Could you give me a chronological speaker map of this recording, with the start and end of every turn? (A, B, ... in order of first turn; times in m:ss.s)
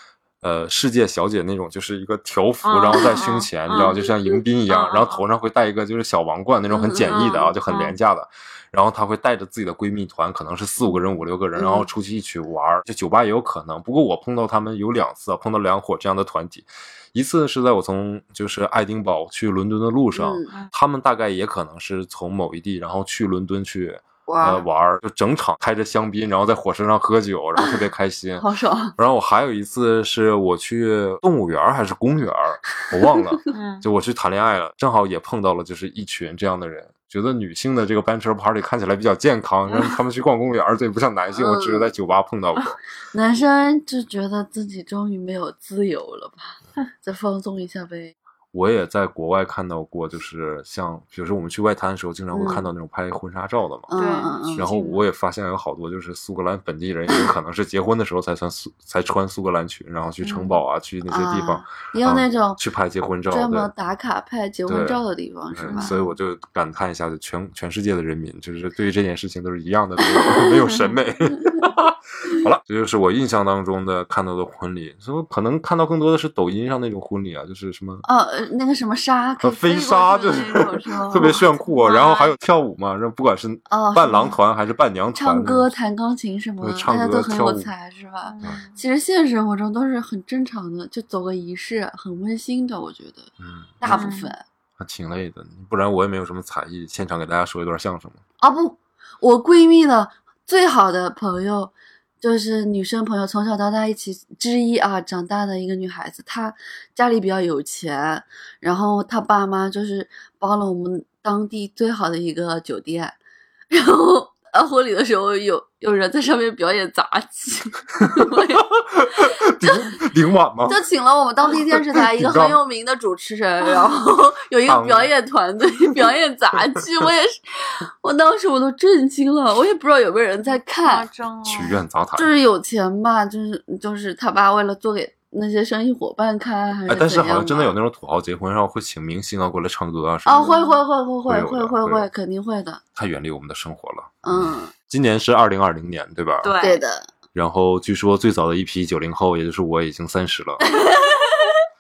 0:00.4-0:28.5 A
0:02.6-0:04.0 B
0:03.8-0:04.1 C
0:04.7-0:05.2 B
0:06.7-0:07.5 C
0:07.1-0:08.0 B
0:11.6-0:11.9 C
0:20.1-0:20.5 C
0:24.3-0:24.7 C
0:28.4-0:29.0 C
0:29.0-0:42.8 A
0:33.5-0:33.8 B
0:41.4-0:41.9 C
0:43.1-0:48.1 C
0:48.5-0:54.0 A
0:52.3-0:52.7 C
0:53.9-0:54.7 C
0:54.0-0:55.0 B
0:54.6-1:03.7 A
1:00.2-1:00.6 B
1:01.1-1:02.6 C
1:03.3-1:06.1 C
1:04.7-1:18.0 A
1:05.7-1:06.0 B
1:10.6-1:11.0 B
1:18.0-1:21.5 C
1:19.4-1:25.7 A
1:21.7-1:22.4 B
1:23.7-1:24.4 C
1:25.2-1:34.4 C
1:26.6-1:27.7 A
1:28.2-1:28.8 B
1:33.4-1:34.1 A
1:33.9-1:34.3 B
1:34.8-1:38.2 A
1:38.4-1:53.2 C
1:53.7-1:58.7 C
1:58.0-2:00.8 A
1:59.2-2:00.0 C
2:00.7-2:11.1 C
2:01.5-2:02.6 A
2:04.7-2:05.1 A
2:10.8-2:11.8 B
2:11.4-2:12.3 A
2:12.2-2:17.8 C
2:16.9-2:20.5 A
2:20.3-2:22.8 C
2:20.4-2:20.8 B
2:21.2-2:22.1 A
2:23.0-2:26.5 A
2:24.2-2:24.7 C
2:26.4-2:26.8 B
2:26.6-2:27.1 C
2:27.3-2:30.7 A
2:30.7-2:31.6 C